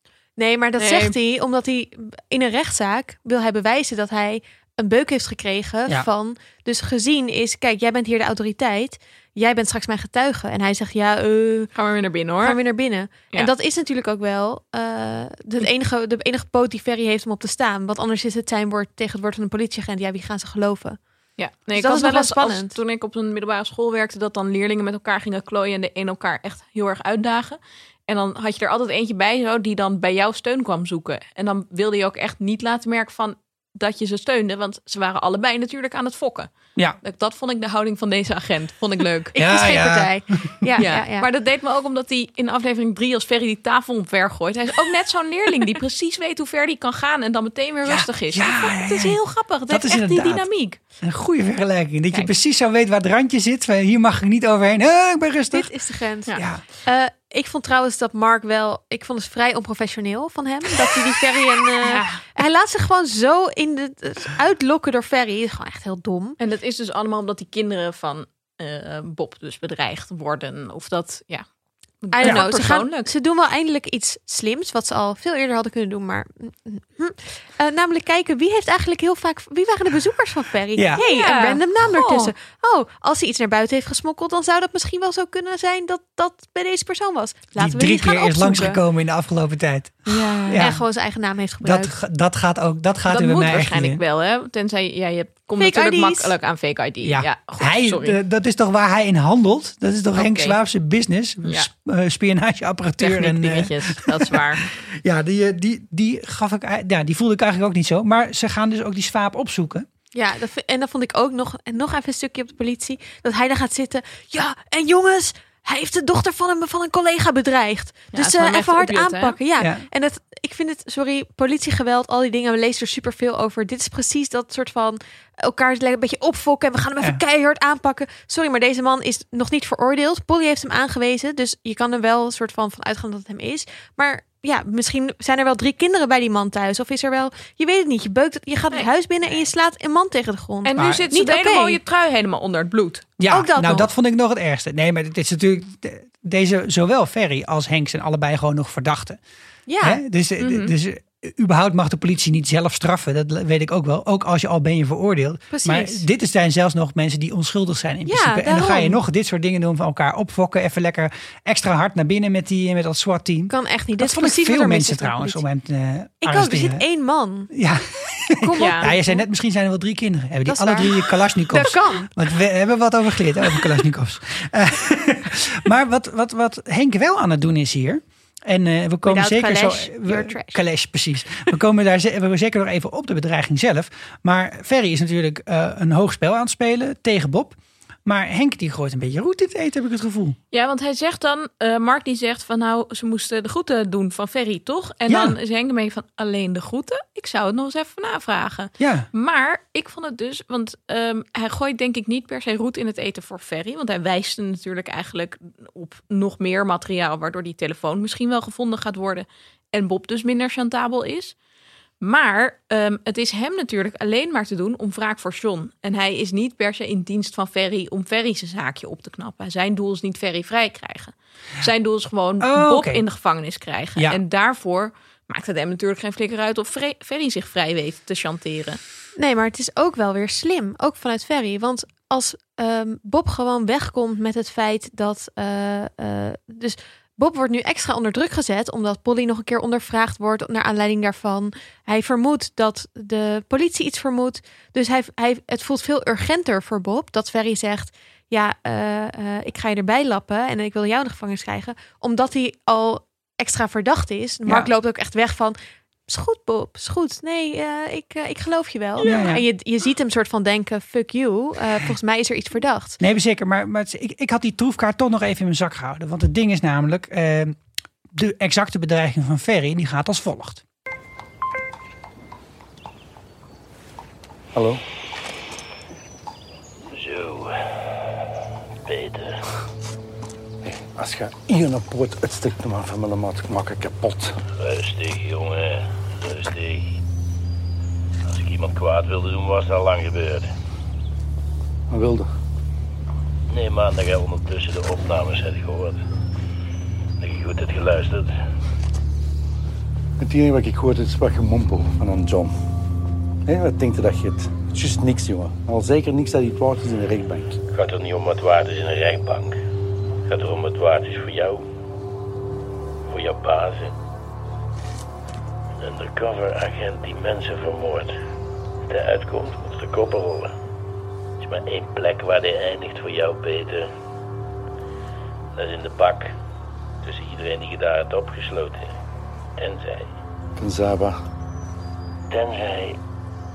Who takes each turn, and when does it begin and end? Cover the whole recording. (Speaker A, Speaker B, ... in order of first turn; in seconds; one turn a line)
Speaker A: 0.4-11.7
Speaker B: 0.8-1.2
Speaker B: 11.8-12.6
Speaker A: 12.4-21.0
Speaker B: 21.4-36.5
Speaker A: 21.8-22.8
Speaker B: 37.0-39.3
Speaker A: 39.3-41.3
Speaker C: 39.4-40.5
Speaker B: 40.8-50.8
Speaker C: 47.9-50.5
Speaker C: 51.0-55.7
Speaker A: 55.5-66.4
Speaker C: 56.4-56.6
Speaker B: 61.8-62.2
Speaker B: 66.4-71.5
Speaker B: 72.0-73.1
Speaker A: 72.1-88.8
Speaker B: 81.0-82.3
Speaker C: 87.6-90.8
Speaker B: 90.1-90.7
Speaker A: 90.5-91.9
Speaker C: 91.6-94.0
Speaker B: 93.1-98.2
Speaker A: 95.6-96.3
Speaker C: 97.0-109.9
Speaker B: 100.2-100.6
Speaker B: 103.0-104.6
Speaker A: 110.1-141.8
Speaker B: 118.1-119.4
Speaker C: 119.6-119.8
Speaker B: 140.6-143.1
Speaker C: 140.8-141.0
Speaker C: 143.2-149.2
Speaker A: 143.3-143.9
Speaker A: 149.7-150.0
Speaker C: 149.8-166.8
Speaker B: 150.4-150.7
Speaker A: 155.5-156.0
Speaker A: 158.1-159.0
Speaker A: 163.5-165.4
Speaker A: 166.2-167.5
Speaker C: 167.5-190.4
Speaker A: 168.4-169.2
Speaker B: 168.6-168.9
Speaker A: 170.5-172.1
Speaker A: 179.1-180.6
Speaker B: 190.5-211.3
Speaker C: 195.1-195.4
Speaker C: 198.8-199.1
Speaker B: 212.0-228.8
Speaker C: 222.4-223.1
Speaker A: 229.2-255.6
Speaker A: 256.1-263.0
Speaker B: 259.0-259.3
Speaker C: 259.0-259.4
Speaker C: 263.0-267.6
Speaker C: 268.1-270.6
Speaker D: 274.6-274.8
Speaker E: 276.9-277.8
Speaker E: 278.9-279.4
Speaker D: 280.6-284.4
Speaker E: 284.6-286.9
Speaker E: 288.3-290.5
Speaker D: 291.9-292.3
Speaker E: 293.5-296.0
Speaker E: 297.2-298.3
Speaker D: 300.2-302.6
Speaker D: 303.5-307.6
Speaker E: 307.7-309.6
Speaker E: 310.3-311.6
Speaker E: 313.1-313.9
Speaker E: 315.8-318.1
Speaker E: 318.9-320.5
Speaker E: 321.4-323.9
Speaker E: 325.6-326.3
Speaker E: 327.0-328.9
Speaker E: 329.6-330.1
Speaker D: 330.6-331.2
Speaker E: 332.3-333.0